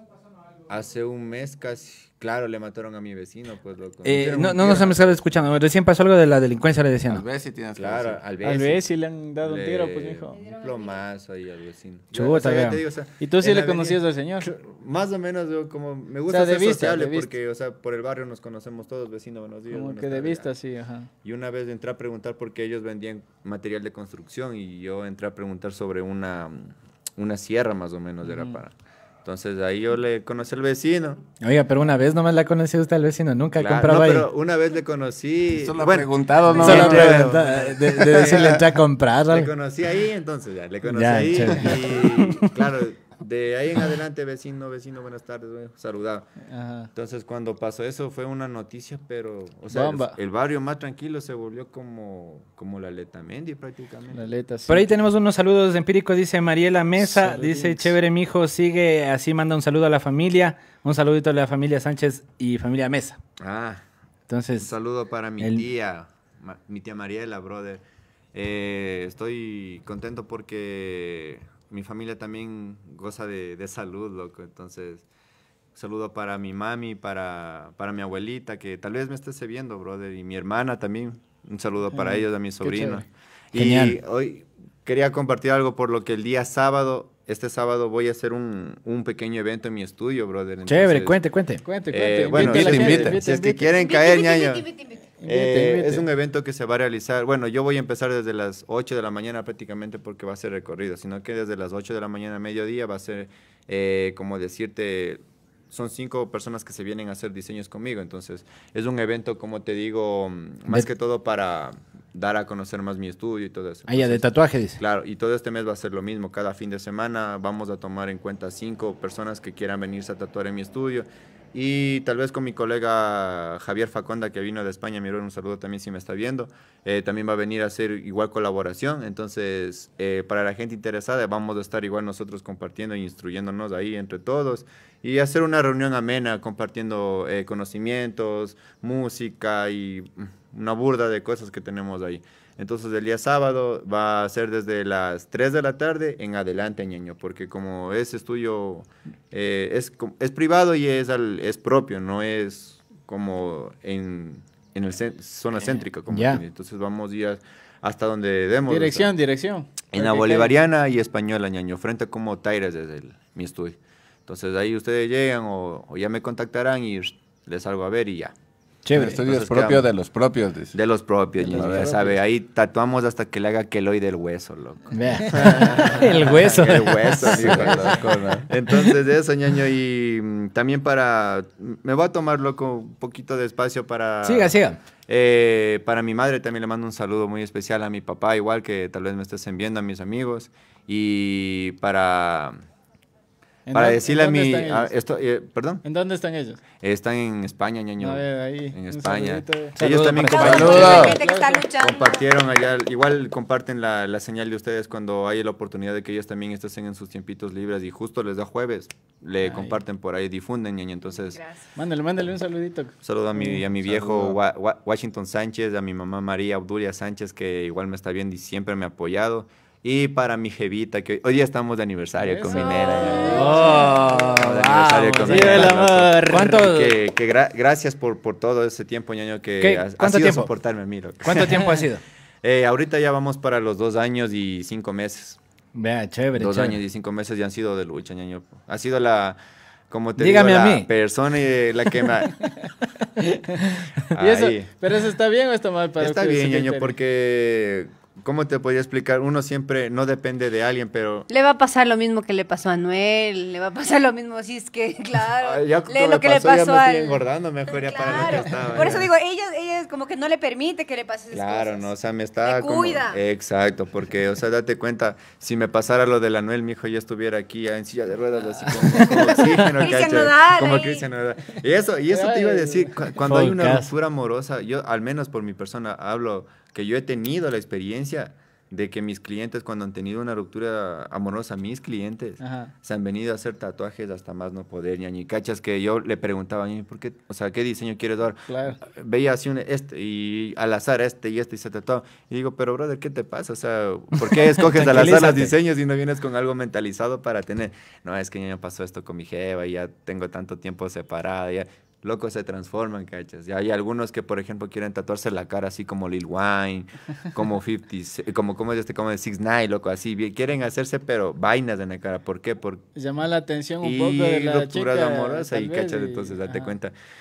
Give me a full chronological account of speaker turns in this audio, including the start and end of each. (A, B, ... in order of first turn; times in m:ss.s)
0:00.7-0:05.2 A
0:04.0-0:07.2 B
0:07.1-0:08.2 C
0:07.8-0:08.8 A
0:08.4-0:10.4 D
0:09.4-0:20.5 A
0:12.1-0:12.8 B
0:13.2-0:14.5 D
0:16.3-0:17.3 D
0:19.7-0:21.1 D
0:21.2-0:28.7 A
0:28.3-0:28.5 D
0:29.2-0:31.2 A
0:31.4-0:34.3 B
0:33.6-0:38.7 A
0:35.5-0:38.4 C
0:36.5-0:39.5 B
0:39.3-0:46.3 A
0:40.9-0:42.5 B
0:46.5-0:46.9 D
0:46.9-0:54.3 A
0:49.7-0:50.2 D
0:54.1-0:54.9 D
0:54.7-1:03.2 B
0:57.0-0:57.9 D
1:03.4-1:03.8 A
1:04.3-1:04.7 B
1:04.6-1:07.8 A
1:05.4-1:05.6 B
1:08.3-1:15.0 A
1:15.7-1:31.2 A
1:21.9-1:23.0 D
1:23.5-1:24.0 B
1:30.7-1:31.6 B
1:31.6-1:33.8 D
1:31.9-1:34.7 A
1:32.3-1:33.2 C
1:33.7-1:35.1 E
1:35.2-1:36.0 D
1:35.3-1:54.2 A
1:53.9-1:54.8 B
1:54.8-2:39.1 A
2:36.1-2:36.4 B
2:38.6-2:40.5 D
2:39.9-2:48.3 A
2:48.8-2:49.2 B
2:48.9-2:50.8 C
2:49.0-2:49.9 A
2:50.7-3:04.6 A
2:51.4-2:52.0 C
2:51.5-2:52.2 D
2:54.9-2:57.8 B
2:55.2-2:55.9 D
2:57.2-2:58.5 C
3:04.2-3:04.8 B
3:05.1-3:12.5 A
3:13.7-3:14.9 D
3:13.7-3:15.8 A
3:15.8-3:16.6 D
3:16.8-3:21.1 A
3:18.0-3:19.8 D
3:19.7-3:21.2 B
3:20.2-3:22.3 E
3:20.4-3:21.2 C
3:20.4-3:21.6 D
3:21.8-3:31.4 A
3:29.4-3:29.7 D
3:31.3-3:31.7 E
3:31.8-3:33.6 D
3:33.0-3:51.7 A
3:33.8-3:34.4 C
3:42.2-3:44.4 D
3:42.5-3:43.7 E
3:43.3-3:47.0 B
3:45.2-3:46.5 D
3:49.6-3:50.5 B
3:51.2-3:52.0 B
3:52.4-3:55.4 A
3:55.7-3:56.8 B
3:56.4-3:59.4 A
3:59.9-4:02.4 A
4:00.2-4:00.9 B
4:04.1-4:04.7 A
4:04.2-4:06.9 D
4:06.0-4:11.2 A
4:11.3-4:21.9 E
4:15.4-4:19.1 A
4:21.3-5:12.8 A
4:22.4-4:23.2 E
4:29.0-4:31.0 E
4:32.1-4:33.1 D
4:33.2-4:33.9 B
4:42.4-4:42.7 D
4:48.5-4:48.8 D
4:54.7-4:55.5 B
5:12.9-5:16.7 D
5:13.8-5:16.9 A